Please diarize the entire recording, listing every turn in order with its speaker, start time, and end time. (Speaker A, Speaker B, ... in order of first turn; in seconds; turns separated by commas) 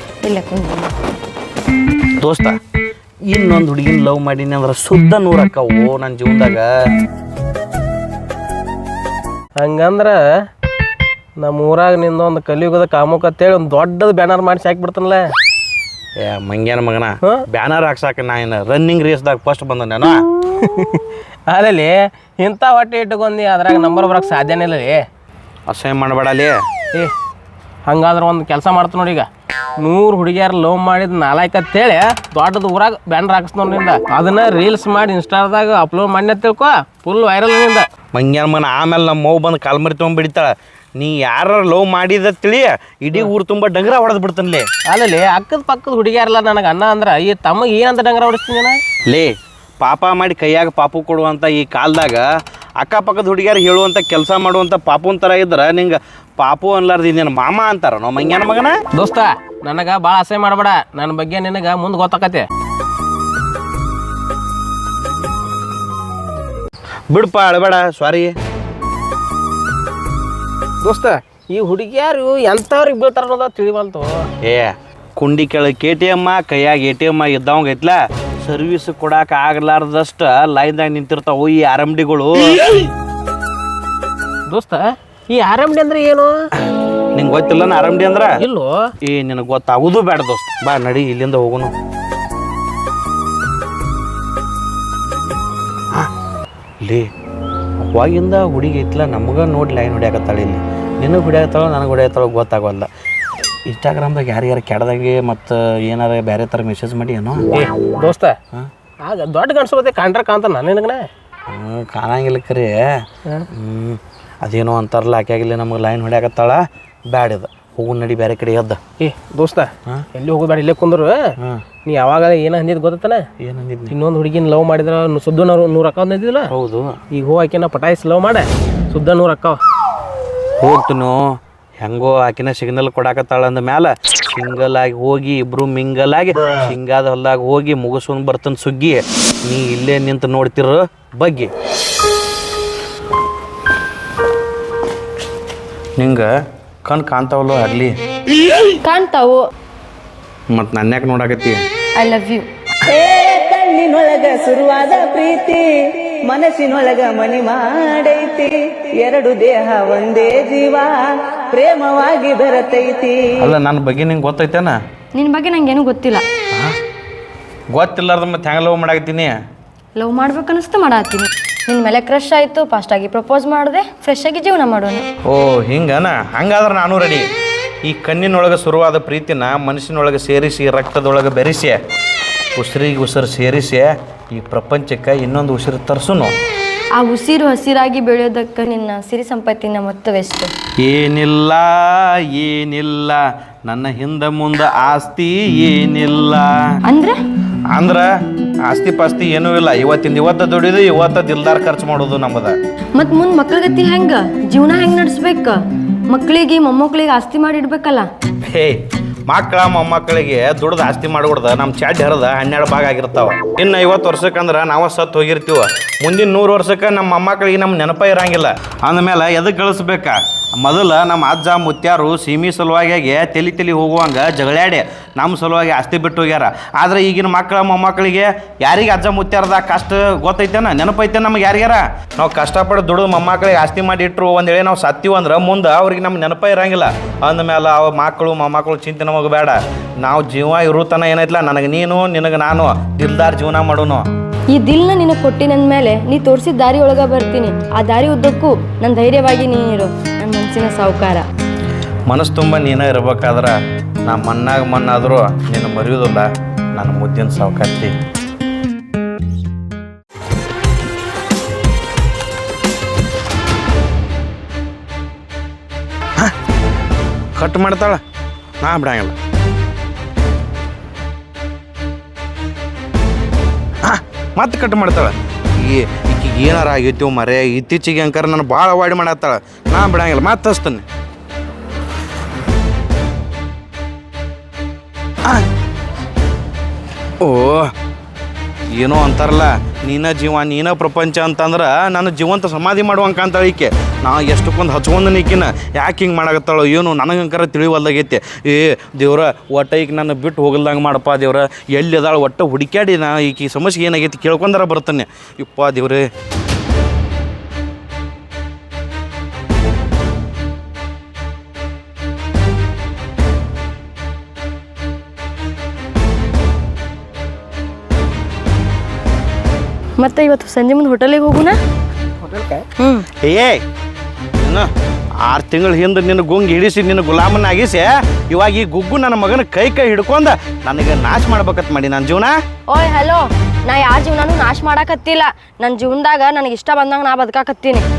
Speaker A: 0.2-0.9, Speaker B: 2.2-2.5, Speaker B: 3.3-6.7, Speaker C: 9.6-10.2, Speaker C: 11.4-15.2, Speaker B: 16.2-20.2, Speaker C: 20.5-25.0, Speaker B: 25.7-26.6, Speaker C: 27.9-29.3, Speaker C: 29.8-37.9, Speaker B: 38.1-44.6, Speaker C: 44.9-48.8, Speaker B: 49.1-52.2, Speaker B: 52.8-58.8, Speaker C: 58.9-62.5, Speaker B: 67.1-68.3, Speaker C: 70.8-74.2, Speaker B: 74.4-82.8, Speaker C: 84.5-86.4, Speaker B: 87.2-88.3, Speaker C: 88.4-88.9, Speaker B: 89.0-91.7, Speaker B: 96.8-97.1, Speaker B: 97.8-102.9, Speaker B: 103.7-107.5, Speaker C: 107.5-108.4, Speaker C: 109.0-111.1, Speaker B: 111.5-118.8, Speaker C: 119.0-121.2, Speaker C: 121.8-123.2, Speaker B: 123.4-123.9, Speaker C: 123.9-126.5, Speaker B: 126.5-127.0, Speaker C: 127.1-129.6, Speaker B: 130.6-131.2, Speaker B: 131.8-141.5, Speaker B: 146.0-146.3, Speaker B: 146.8-147.9, Speaker A: 148.7-149.4, Speaker B: 150.5-151.6, Speaker A: 151.9-152.4, Speaker D: 152.8-163.4, Speaker B: 163.4-164.8, Speaker A: 165.1-166.2, Speaker B: 167.7-169.3, Speaker A: 169.9-175.1, Speaker B: 175.3-177.3, Speaker B: 177.8-181.8, Speaker B: 182.5-186.3, Speaker A: 186.9-190.5, Speaker B: 190.8-196.5, Speaker A: 196.8-197.2, Speaker B: 197.7-198.1, Speaker B: 198.6-202.5, Speaker A: 202.9-205.6, Speaker A: 206.1-208.1, Speaker B: 208.5-244.0, Speaker A: 244.5-251.2, Speaker B: 252.1-253.6, Speaker B: 254.1-257.9, Speaker B: 267.4-268.0, Speaker B: 268.6-269.1, Speaker B: 273.8-280.8, Speaker B: 287.2-287.7, Speaker B: 288.7-306.0, Speaker A: 320.0-321.6, Speaker C: 322.2-322.7, Speaker A: 322.8-323.1, Speaker B: 323.2-323.6, Speaker B: 324.4-324.7, Speaker B: 325.2-332.3, Speaker A: 332.7-337.9